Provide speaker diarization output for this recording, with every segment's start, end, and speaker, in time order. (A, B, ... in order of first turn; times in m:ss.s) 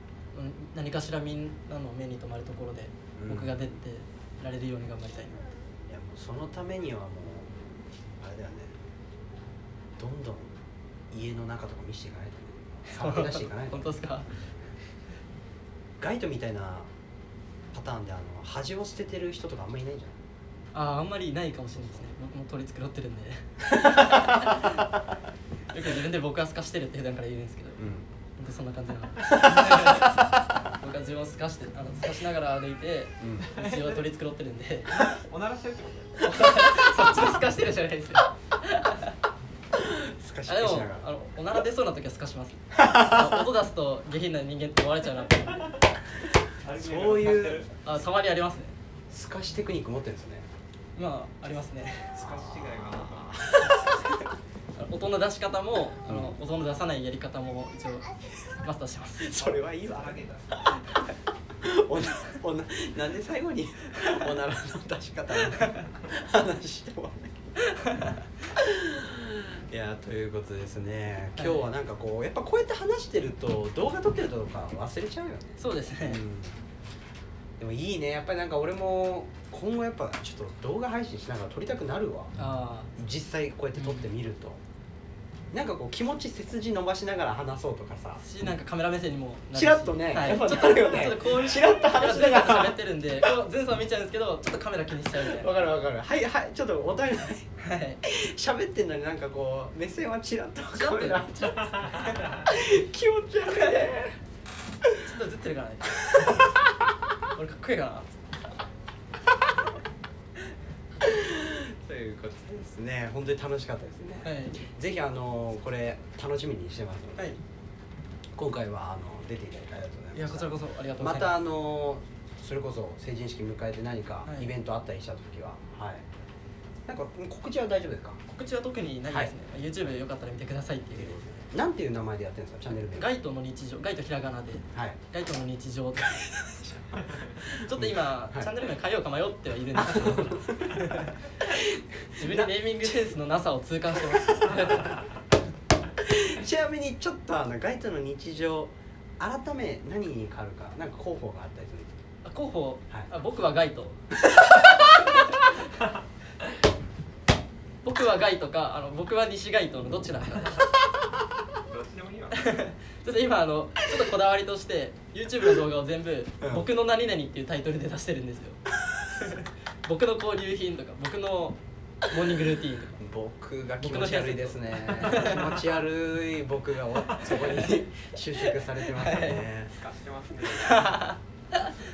0:00.3-0:05.4 A
0:03.2-0:03.7 B
0:05.9-0:08.8 B
0:10.0-0:10.6 B
0:11.1-0:14.8 B
0:12.9-0:14.3 A
0:16.0-0:16.9 B
0:17.7-0:20.2 B
0:20.7-0:24.9 A
0:23.7-0:24.8 B
0:25.7-0:27.8 A
0:27.8-0:28.1 B
0:28.4-0:35.0 A
0:29.2-0:30.2 B
0:33.2-0:33.5 B
0:33.4-0:34.1 C
0:34.9-0:36.3 C
0:36.2-0:39.2 A
0:39.7-0:41.1 B
0:40.4-0:45.8 A
0:42.7-0:43.5 B
0:46.6-0:47.7 C
0:46.7-0:47.6 B
0:47.8-0:48.7 A
0:49.1-0:50.5 B
0:51.0-0:52.2 A
0:52.1-0:53.5 C
0:52.2-0:54.2 B
0:53.7-0:54.0 A
0:54.7-0:59.3 A
0:56.1-0:56.3 B
0:59.2-1:00.2 B
0:59.4-1:00.8 C
1:01.6-1:07.5 B
1:07.6-1:08.2 A
1:08.5-1:16.6 B
1:11.4-1:11.7 A
1:15.6-1:16.2 A
1:17.6-1:22.4 B
1:22.4-1:22.9 A
1:23.0-1:24.6 B
1:23.8-1:24.1 A
1:25.5-1:28.2 B
1:28.2-1:35.5 A
1:29.5-1:32.8 B
1:35.1-1:37.5 B
1:37.6-1:38.0 A
1:38.0-1:41.9 B
1:40.7-1:42.4 A
1:42.4-1:44.2 B
1:44.8-1:45.1 B
1:45.0-1:46.4 A
1:46.0-1:46.5 B
1:47.3-1:48.1 A
1:51.0-1:57.3 B
1:54.2-1:54.6 A
1:58.3-2:06.0 B
2:00.1-2:01.4 A
2:04.2-2:04.5 A
2:06.9-2:08.2 B
2:08.3-2:11.2 A
2:10.9-2:13.1 B
2:12.9-2:16.3 A
2:14.7-2:15.0 B
2:16.0-2:18.5 B
2:17.4-2:21.2 A
2:19.8-2:23.1 B
2:22.1-2:25.0 A
2:24.0-2:24.9 B
2:26.0-2:31.9 B
2:32.2-2:35.5 A
2:34.3-2:34.9 B
2:37.8-2:40.7 A
2:41.7-2:42.5 C
2:42.3-2:48.6 A
2:46.4-2:46.7 B
2:49.1-2:53.0 A
2:53.0-2:59.7 B
2:53.8-2:55.6 A
2:57.3-2:57.8 A
2:58.4-2:59.4 A
2:59.6-3:01.0 C
3:00.6-3:01.7 A